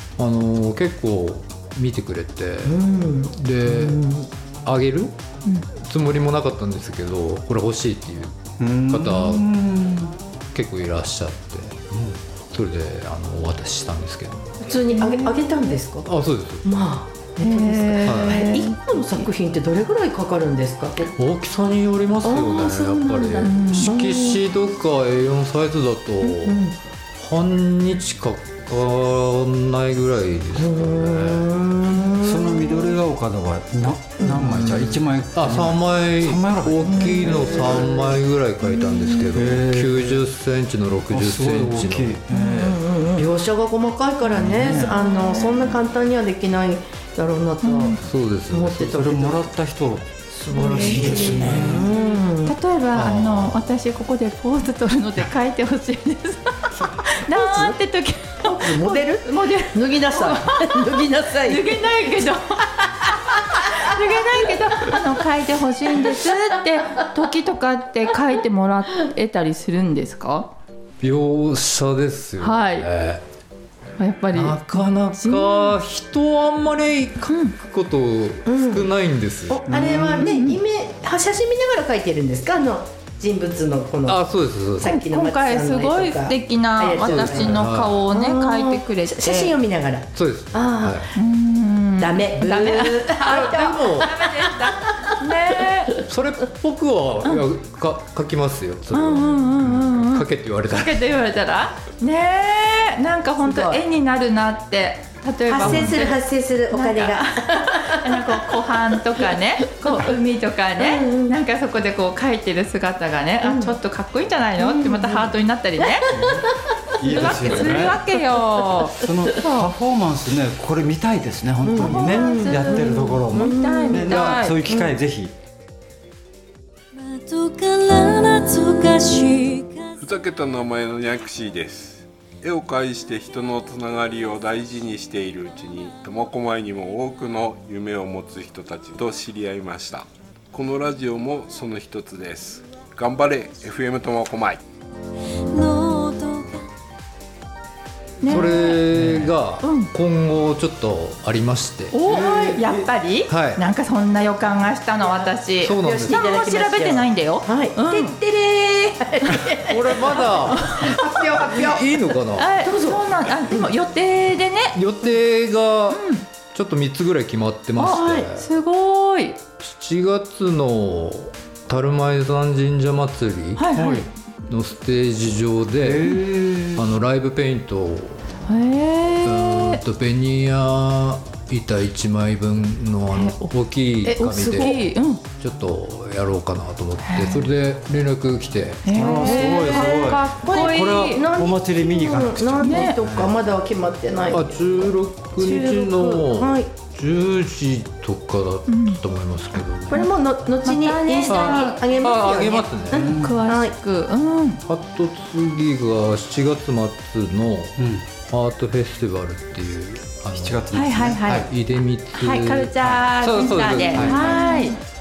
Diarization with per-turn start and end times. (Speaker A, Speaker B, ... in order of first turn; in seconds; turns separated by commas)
Speaker A: 0.2-4.0, Speaker B: 2.6-4.3, Speaker A: 4.7-5.2, Speaker A: 5.8-9.5, Speaker C: 8.6-10.2, Speaker A: 10.5-11.8, Speaker C: 11.9-12.2, Speaker A: 12.5-14.6, Speaker B: 14.6-16.1, Speaker D: 14.9-15.8, Speaker A: 16.1-16.7, Speaker B: 16.6-21.1, Speaker D: 17.4-19.3, Speaker A: 18.0-18.4, Speaker A: 21.2-26.6, Speaker B: 22.2-24.4, Speaker D: 23.4-24.0, Speaker B: 26.2-26.8, Speaker A: 27.2-31.5, Speaker B: 30.6-33.0, Speaker C: 32.2-38.0, Speaker A: 34.3-42.2, Speaker B: 36.9-37.9, Speaker B: 38.8-39.3, Speaker C: 39.3-40.2, Speaker C: 41.1-43.3, Speaker D: 42.3-42.6, Speaker B: 42.4-49.5, Speaker D: 44.3-45.8, Speaker C: 44.4-44.9, Speaker D: 47.6-48.0, Speaker A: 48.0-49.0, Speaker C: 48.8-51.9, Speaker B: 50.5-52.5, Speaker D: 50.5-70.5, Speaker A: 50.6-51.8, Speaker A: 52.9-53.6, Speaker B: 57.2-57.8, Speaker B: 58.4-61.8, Speaker B: 63.5-65.0, Speaker B: 66.0-66.5, Speaker A: 71.0-73.2, Speaker D: 72.4-72.9, Speaker D: 74.0-75.8, Speaker A: 74.3-79.7, Speaker D: 77.3-77.6, Speaker B: 78.5-78.9, Speaker B: 79.5-84.2, Speaker C: 79.7-80.3, Speaker D: 80.2-80.6, Speaker A: 84.1-85.0, Speaker B: 84.8-91.1, Speaker D: 84.8-89.5, Speaker A: 87.0-88.0, Speaker A: 90.2-91.1, Speaker D: 91.2-96.0, Speaker B: 92.0-95.1, Speaker A: 93.2-94.2, Speaker A: 96.0-101.0, Speaker D: 98.9-116.1, Speaker B: 103.4-103.8, Speaker B: 105.5-108.4, Speaker B: 110.8-111.4, Speaker B: 113.4-113.8, Speaker B: 114.6-115.3, Speaker B: 115.9-116.5, Speaker C: 116.1-118.0, Speaker B: 117.1-117.9, Speaker D: 117.1-119.7, Speaker C: 118.9-125.3, Speaker B: 121.6-124.9, Speaker D: 121.8-124.6, Speaker E: 126.9-129.9, Speaker F: 130.0-144.6, Speaker E: 145.5-146.7, Speaker D: 148.2-148.8, Speaker A: 148.3-151.9, Speaker C: 148.3-149.3, Speaker D: 149.6-149.9, Speaker D: 151.9-158.2, Speaker C: 152.1-152.9, Speaker A: 153.3-153.6, Speaker B: 155.2-162.0, Speaker A: 155.6-156.3, Speaker A: 159.6-160.9, Speaker A: 161.5-162.5, Speaker D: 162.4-164.8, Speaker B: 162.6-163.6, Speaker A: 164.8-168.5, Speaker D: 165.9-166.2, Speaker D: 167.8-169.4, Speaker B: 167.8-168.3, Speaker A: 169.6-173.7, Speaker D: 173.6-174.1, Speaker C: 173.7-174.1, Speaker A: 174.5-178.2, Speaker C: 175.8-176.8, Speaker D: 178.5-179.8, Speaker A: 179.2-188.9, Speaker D: 183.1-185.2, Speaker B: 184.3-184.8, Speaker D: 187.1-187.5, Speaker D: 188.8-191.2, Speaker C: 188.9-193.4, Speaker B: 189.2-196.7, Speaker D: 192.6-193.0, Speaker A: 194.3-200.1, Speaker D: 198.7-199.0, Speaker B: 199.9-203.8, Speaker D: 200.6-201.8, Speaker A: 201.3-203.1, Speaker C: 202.9-203.4, Speaker D: 203.1-204.6, Speaker A: 204.7-214.7, Speaker C: 207.8-208.1, Speaker C: 210.4-211.5, Speaker D: 210.7-211.5, Speaker D: 212.1-214.8, Speaker C: 213.9-214.3